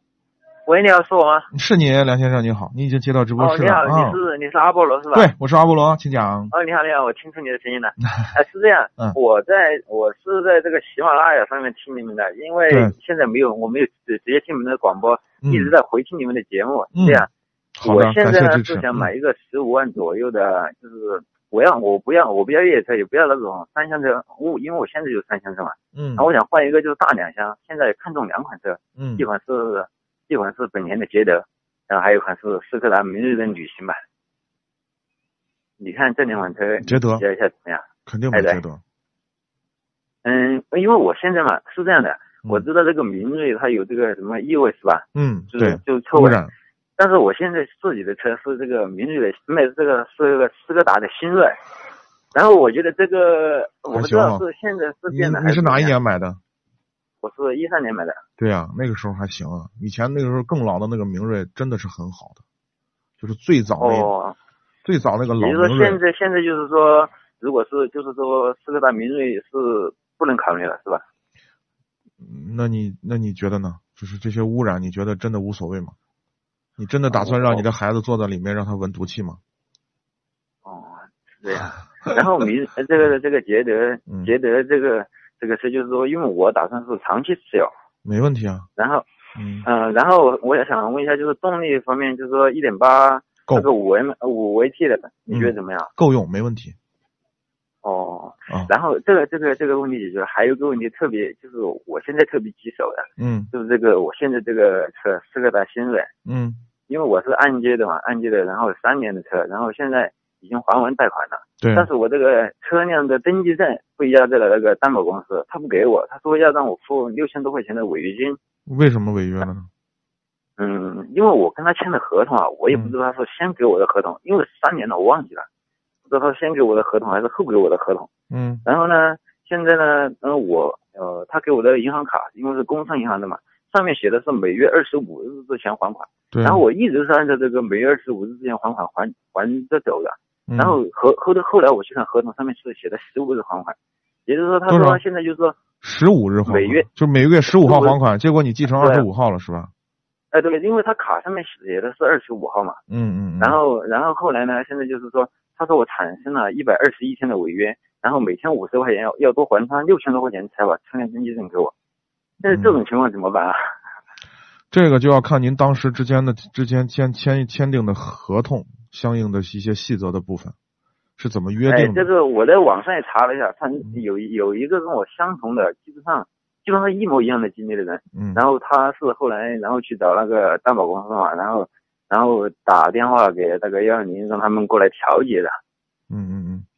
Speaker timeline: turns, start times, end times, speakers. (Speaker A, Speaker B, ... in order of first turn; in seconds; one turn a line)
Speaker A: 0.7-1.5
Speaker B: 1.5-4.2
Speaker A: 3.4-5.3
Speaker B: 5.1-6.5
Speaker A: 6.5-17.3
Speaker B: 12.7-12.9
Speaker B: 15.4-15.7
Speaker B: 16.9-17.2
Speaker B: 17.8-19.1
Speaker A: 17.8-34.0
Speaker B: 25.9-26.3
Speaker B: 29.0-29.3
Speaker A: 35.8-38.6
Speaker B: 36.8-37.2
Speaker B: 38.1-38.8
Speaker A: 40.2-46.4
Speaker B: 45.1-46.5
Speaker A: 47.0-51.6
Speaker A: 52.3-56.0
Speaker B: 53.9-54.4
Speaker B: 55.1-56.4
Speaker A: 57.2-58.2
Speaker B: 58.4-62.4
Speaker B: 63.2-64.1
Speaker A: 63.8-64.3
Speaker B: 64.8-66.0
Speaker A: 65.4-71.0
Speaker B: 72.2-75.9
Speaker B: 76.8-79.4
Speaker A: 77.1-77.7
Speaker A: 80.6-87.7
Speaker B: 88.0-88.7
Speaker A: 88.8-89.0
Speaker B: 89.4-89.7
Speaker A: 89.6-95.9
Speaker B: 95.3-96.7
Speaker A: 97.8-106.1
Speaker B: 103.2-103.5
Speaker B: 106.2-106.6
Speaker A: 106.9-118.4
Speaker B: 111.6-111.9
Speaker B: 118.7-119.7
Speaker A: 120.6-125.5
Speaker B: 122.7-122.9
Speaker A: 126.1-128.1
Speaker B: 128.3-128.6
Speaker A: 128.6-143.7
Speaker B: 136.3-136.6
Speaker B: 140.5-140.8
Speaker A: 144.2-145.6
Speaker B: 144.7-145.0
Speaker B: 145.8-149.7
Speaker A: 146.5-146.8
Speaker A: 147.6-148.0
Speaker A: 148.7-149.1
Speaker A: 150.3-152.8
Speaker B: 152.9-153.6
Speaker A: 153.4-161.7
Speaker A: 162.4-163.6
Speaker B: 162.4-162.8
Speaker B: 164.7-170.5
Speaker B: 171.2-172.1
Speaker A: 171.7-185.6
Speaker B: 178.1-178.4
Speaker B: 186.1-186.7